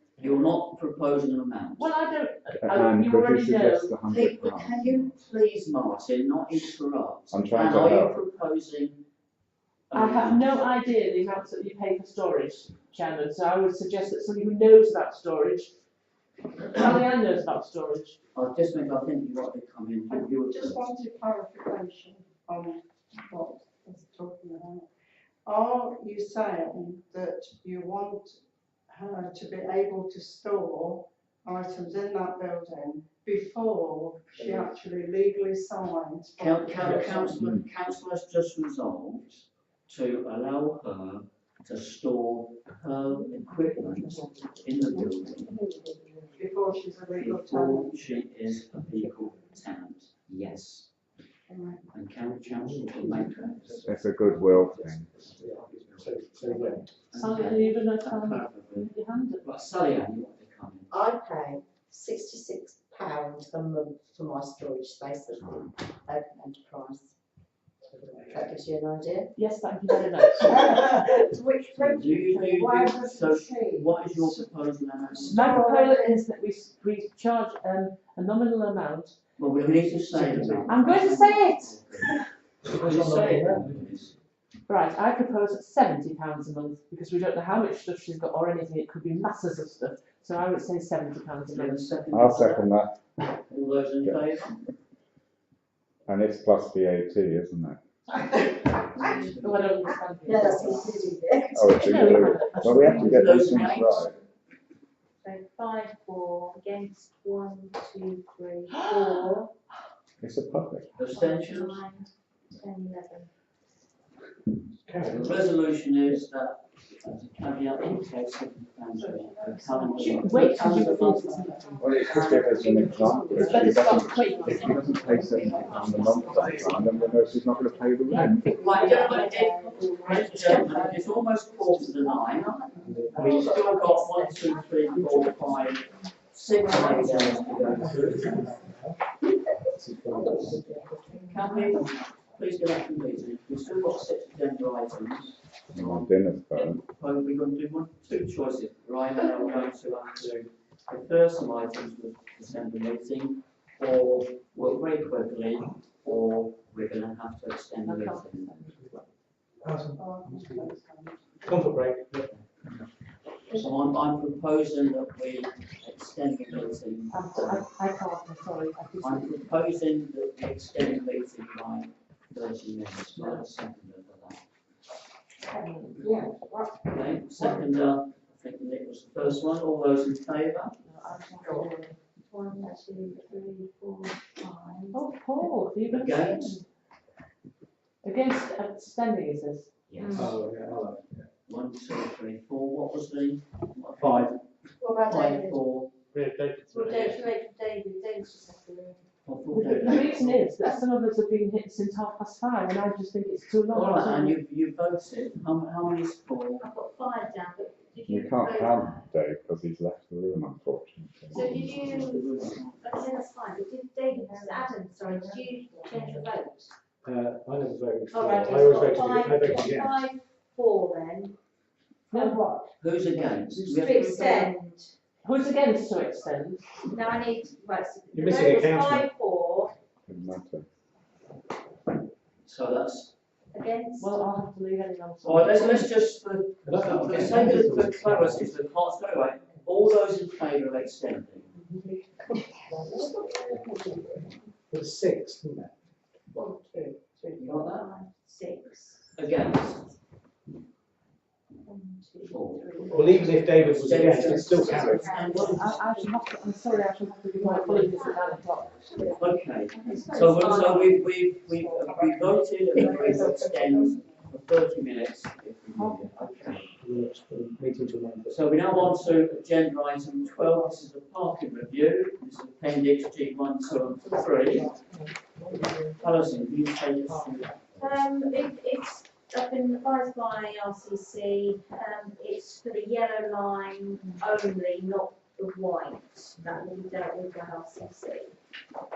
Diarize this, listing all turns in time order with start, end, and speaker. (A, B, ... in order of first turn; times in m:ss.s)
0:00.2-0:02.0 A
0:01.8-0:03.9 B
0:02.6-0:05.2 C
0:04.1-0:09.0 A
0:07.3-0:08.2 C
0:09.9-0:10.6 A
0:09.9-0:15.7 B
0:16.6-0:18.2 B
0:18.4-0:20.9 A
0:20.1-0:24.9 D
0:25.4-0:37.5 D
0:36.4-0:39.4 A
0:36.8-0:37.2 E
0:39.9-0:45.6 A
0:46.4-0:47.9 D
0:47.1-0:50.9 A
0:51.5-0:51.8 D
0:51.9-0:54.0 A
0:52.6-0:56.9 E
0:53.8-0:55.1 C
0:55.4-0:56.3 A
0:57.1-0:58.9 A
0:57.1-0:59.5 B
0:59.4-1:00.9 A
1:00.9-1:07.1 F
1:07.9-1:08.5 E
1:08.2-1:09.3 F
1:09.4-1:10.9 B
1:10.5-1:13.8 F
1:11.7-1:15.4 A
1:14.2-1:14.4 D
1:15.3-1:19.2 B
1:15.4-1:16.2 F
1:19.4-1:24.2 A
1:20.1-1:20.7 E
1:20.6-1:22.2 B
1:22.6-1:23.8 E
1:24.7-1:31.9 B
1:31.5-1:32.8 A
1:32.1-1:33.4 C
1:33.5-1:34.6 A
1:36.1-1:37.8 C
1:38.7-1:39.8 A
1:39.4-1:41.0 B
1:40.2-1:42.4 F
1:41.6-1:44.2 C
1:41.7-1:44.0 B
1:42.7-1:44.1 A
1:45.2-1:49.5 G
1:48.7-1:49.3 B
1:50.2-1:51.0 C
1:51.0-1:51.8 A
1:51.1-1:53.3 G
1:54.9-1:55.4 E
1:55.0-2:03.8 A
1:59.0-2:00.9 D
2:00.0-2:01.9 B
2:00.6-2:01.0 G
2:01.8-2:07.0 G
2:01.8-2:08.6 C
2:02.4-2:03.6 D
2:03.4-2:05.2 B
2:05.4-2:06.7 A
2:05.8-2:06.6 B
2:08.1-2:08.6 E
2:08.3-2:11.2 F
2:08.6-2:18.4 A
2:08.6-2:10.9 G
2:11.8-2:14.6 F
2:12.8-2:13.5 E
2:14.4-2:15.7 G
2:16.7-2:18.4 G
2:17.0-2:19.0 E
2:17.6-2:18.3 D
2:19.7-2:20.8 E
2:20.1-2:21.4 F
2:21.3-2:38.5 A
2:21.4-2:21.7 G
2:25.7-2:26.8 C
2:37.8-2:39.1 B
2:39.6-2:40.7 E
2:40.0-2:41.7 D
2:41.4-2:42.8 E
2:43.5-2:47.7 A
2:47.1-2:49.4 B
2:49.0-2:54.4 A
2:53.2-2:53.5 B
2:55.4-2:56.1 B
2:56.0-2:57.6 F
2:56.9-3:00.8 A
3:00.8-3:02.0 B
3:02.3-3:05.0 G
3:04.9-3:06.6 B
3:05.9-3:06.6 A
3:08.0-3:09.7 B
3:09.9-3:10.4 A
3:10.0-3:10.4 G
3:10.2-3:11.3 E
3:11.5-3:14.4 A
3:14.0-3:14.4 E
3:14.8-3:15.6 F
3:15.0-3:15.9 A
3:16.1-3:17.2 E
3:16.7-3:19.0 G
3:19.2-3:20.5 A
3:19.5-3:24.4 B
3:23.7-3:26.7 A
3:26.6-3:29.0 G
3:28.1-3:31.8 C
3:31.3-3:32.8 A
3:31.3-3:36.7 G
3:37.0-3:40.0 E
3:38.1-3:41.4 G
3:42.1-3:42.7 B
3:42.1-3:42.4 G
3:42.8-3:44.5 A
3:43.6-3:44.9 G
3:45.2-3:46.7 B
3:46.8-3:49.7 G
3:48.1-3:49.1 E
3:50.0-3:50.7 C
3:52.4-3:53.1 A
3:53.5-3:54.1 G
3:54.0-3:56.0 B
3:55.2-4:01.5 A
3:56.6-3:58.6 E
4:02.5-4:04.0 F
4:04.7-4:05.7 E
4:06.4-4:07.7 F
4:06.4-4:06.6 G
4:07.4-4:07.9 A
4:07.5-4:09.2 G
4:09.2-4:09.9 A
4:11.6-4:16.1 G
4:12.3-4:15.9 A
4:12.9-4:15.1 E
4:14.8-4:18.9 B
4:15.2-4:15.5 F
4:17.4-4:18.4 G
4:19.2-4:26.7 A
4:19.7-4:21.0 G
4:19.9-4:20.8 B
4:21.6-4:24.2 D
4:25.8-4:26.3 B
4:26.7-4:29.0 E
4:28.3-4:34.8 A
4:35.2-4:36.0 B
4:36.0-4:38.1 A
4:37.1-4:37.4 B
4:37.8-4:48.4 G